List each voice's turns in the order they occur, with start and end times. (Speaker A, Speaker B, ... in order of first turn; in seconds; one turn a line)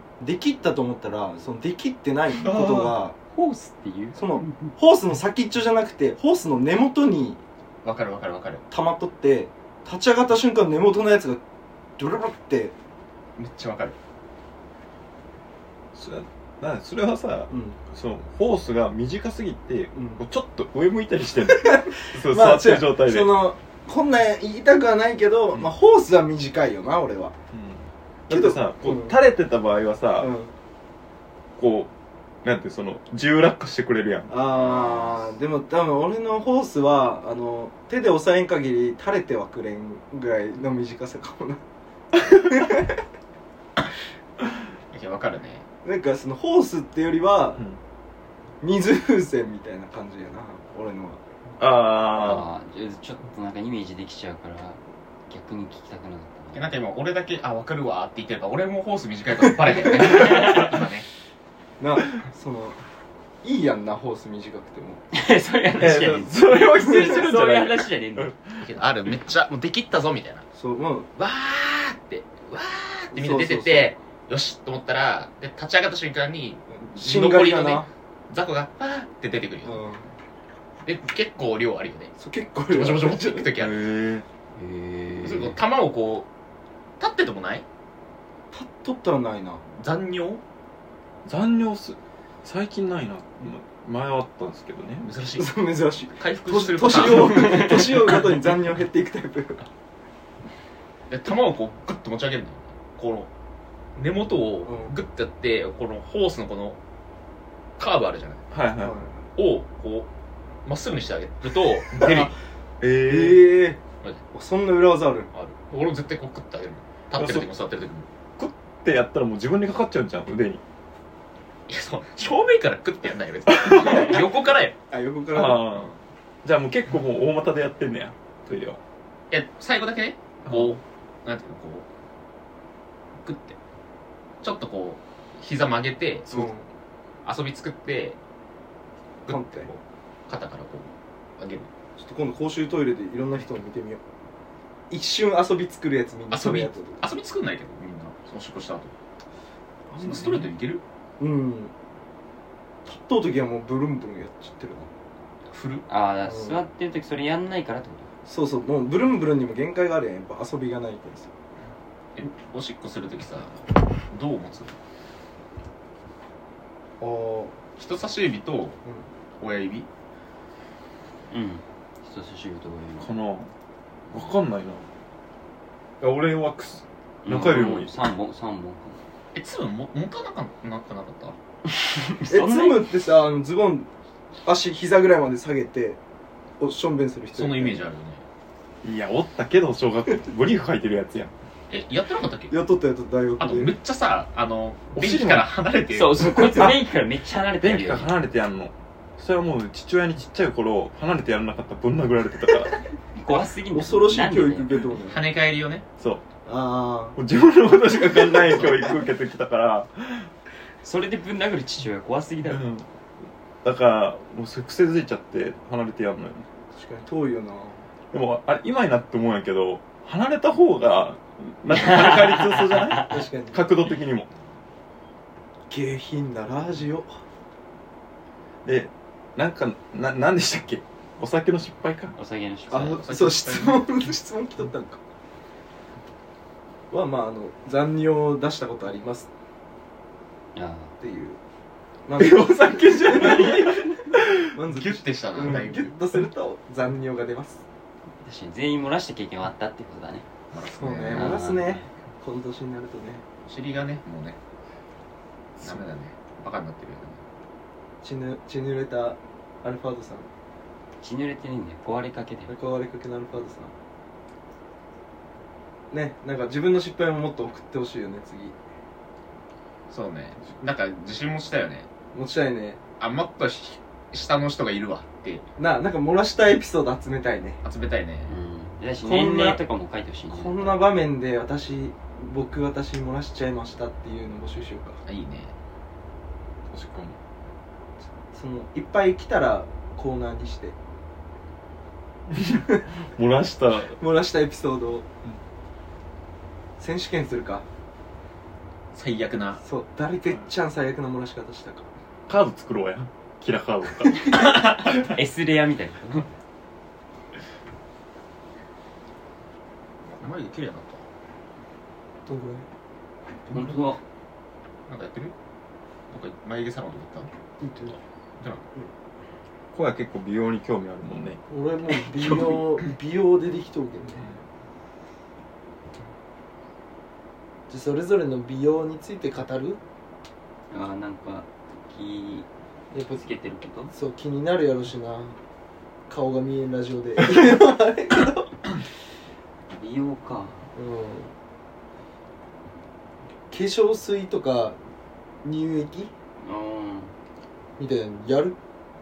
Speaker A: 0.2-3.1
Speaker B: 2.4-2.9
Speaker C: 3.3-4.7
Speaker A: 4.1-7.4
Speaker B: 7.8-8.6
Speaker A: 8.7-11.4
Speaker A: 12.0-12.7
Speaker B: 13.4-14.0
Speaker D: 15.9-23.4
Speaker A: 17.5-17.8
Speaker A: 19.9-20.2
Speaker A: 21.4-27.4
Speaker D: 27.5-30.3
Speaker A: 28.3-29.2
Speaker A: 30.2-30.5
Speaker D: 31.6-31.9
Speaker D: 32.4-34.3
Speaker A: 34.3-41.6
Speaker B: 34.5-35.3
Speaker A: 42.2-43.0
Speaker B: 44.9-45.6
Speaker A: 45.8-47.6
Speaker A: 48.6-51.2
Speaker D: 51.6-52.5
Speaker C: 52.1-56.7
Speaker B: 56.5-61.1
Speaker A: 59.8-60.5
Speaker C: 60.1-60.8
Speaker A: 61.8-62.8
Speaker A: 63.4-65.0
Speaker C: 65.1-68.3
Speaker D: 65.8-68.7
Speaker A: 66.8-67.1
Speaker B: 68.5-70.5
Speaker A: 70.5-71.1
Speaker B: 71.2-79.8
Speaker A: 73.1-73.9
Speaker A: 76.8-77.9
Speaker A: 79.6-80.0
Speaker B: 80.8-82.1
Speaker A: 82.2-83.5
Speaker B: 82.7-83.8
Speaker D: 83.5-84.2
Speaker C: 84.5-85.6
Speaker B: 85.2-86.3
Speaker B: 87.0-87.7
Speaker A: 88.5-89.6
Speaker B: 89.7-90.4
Speaker D: 91.2-95.1
Speaker B: 95.0-95.5
Speaker A: 95.3-99.7
Speaker B: 96.2-98.1
Speaker C: 97.3-97.8
Speaker B: 101.1-103.3
Speaker B: 104.0-106.8
Speaker A: 104.6-105.0
Speaker B: 107.8-108.5
Speaker D: 108.5-109.0
Speaker A: 108.8-109.2
Speaker B: 109.3-110.1
Speaker B: 110.6-112.3
Speaker A: 112.0-112.3
Speaker D: 112.8-113.5
Speaker A: 113.0-113.8
Speaker A: 114.3-115.3
Speaker B: 115.3-118.1
Speaker D: 117.2-117.5
Speaker D: 118.4-120.6
Speaker B: 121.7-124.8
Speaker D: 123.5-124.1
Speaker A: 124.9-125.9
Speaker D: 125.3-128.8
Speaker B: 129.3-131.9
Speaker D: 130.5-130.8
Speaker B: 133.2-133.6
Speaker B: 134.4-136.5
Speaker A: 136.3-136.6
Speaker B: 137.2-138.2
Speaker B: 139.2-141.7
Speaker A: 139.3-139.7
Speaker A: 142.0-144.0
Speaker A: 144.9-147.1
Speaker B: 146.3-148.9
Speaker A: 149.9-150.5
Speaker B: 150.0-150.8
Speaker A: 151.2-151.7
Speaker A: 152.8-154.9
Speaker B: 155.5-155.8
Speaker C: 155.9-158.1
Speaker A: 156.2-156.6
Speaker A: 158.2-161.3
Speaker B: 162.2-164.8
Speaker A: 167.0-167.6
Speaker B: 167.8-168.8
Speaker B: 169.4-169.9
Speaker C: 171.3-173.1
Speaker D: 173.0-173.5
Speaker D: 174.1-174.8
Speaker D: 176.0-177.9
Speaker C: 177.2-179.0
Speaker B: 179.3-181.3
Speaker C: 181.8-182.9
Speaker A: 182.3-183.9
Speaker A: 184.4-186.0
Speaker A: 186.6-187.8
Speaker B: 187.3-188.2
Speaker D: 188.8-191.3
Speaker B: 191.7-192.6
Speaker A: 192.5-193.8
Speaker B: 193.4-196.7
Speaker D: 194.9-195.5
Speaker C: 195.9-198.1
Speaker A: 196.4-196.7
Speaker D: 197.6-202.8
Speaker C: 203.2-204.9
Speaker A: 203.7-205.2
Speaker B: 205.0-205.8
Speaker D: 206.0-206.2
Speaker A: 206.4-207.2
Speaker D: 207.2-210.3
Speaker C: 210.8-212.6
Speaker D: 212.4-212.9
Speaker D: 213.6-216.4
Speaker A: 216.7-217.8
Speaker D: 218.1-224.3
Speaker C: 221.7-223.1
Speaker A: 223.0-223.7
Speaker A: 225.7-227.1
Speaker D: 228.6-232.1
Speaker C: 232.1-233.1
Speaker A: 232.7-235.0
Speaker B: 232.7-233.9
Speaker A: 236.9-239.3
Speaker C: 240.5-240.9
Speaker A: 241.0-241.4
Speaker A: 242.1-247.6
Speaker D: 242.2-244.5
Speaker B: 244.7-245.9
Speaker C: 248.2-250.2
Speaker B: 250.5-251.4
Speaker A: 250.8-253.2
Speaker C: 251.1-251.8
Speaker B: 253.4-254.4
Speaker B: 255.6-257.2
Speaker A: 258.0-260.3
Speaker C: 261.0-262.5
Speaker A: 262.5-263.7
Speaker A: 265.9-268.6
Speaker B: 269.9-271.9
Speaker A: 272.1-272.8
Speaker B: 273.0-275.4
Speaker A: 275.6-277.6
Speaker B: 277.6-278.3
Speaker C: 278.3-280.8
Speaker A: 279.0-279.6
Speaker A: 280.3-285.0
Speaker B: 285.1-285.5
Speaker D: 286.7-287.2
Speaker A: 288.3-290.8
Speaker D: 292.3-294.0
Speaker A: 292.4-292.8
Speaker A: 294.0-295.1
Speaker A: 296.8-297.6
Speaker B: 298.9-299.6
Speaker A: 299.6-301.9
Speaker D: 302.3-305.1
Speaker C: 304.8-306.3
Speaker B: 310.1-311.1
Speaker A: 312.2-312.7
Speaker A: 313.5-313.9
Speaker C: 313.5-314.0
Speaker B: 314.9-315.3
Speaker B: 316.1-317.3
Speaker A: 317.6-318.0
Speaker D: 319.7-321.4
Speaker A: 321.5-324.2
Speaker A: 327.7-329.8
Speaker C: 330.7-332.5
Speaker A: 332.9-333.2
Speaker C: 333.1-333.9
Speaker A: 333.9-335.4
Speaker A: 336.1-338.5
Speaker C: 339.7-340.7
Speaker A: 340.7-341.3
Speaker A: 343.5-344.8
Speaker A: 345.4-346.1
Speaker C: 346.4-347.1
Speaker A: 347.8-348.6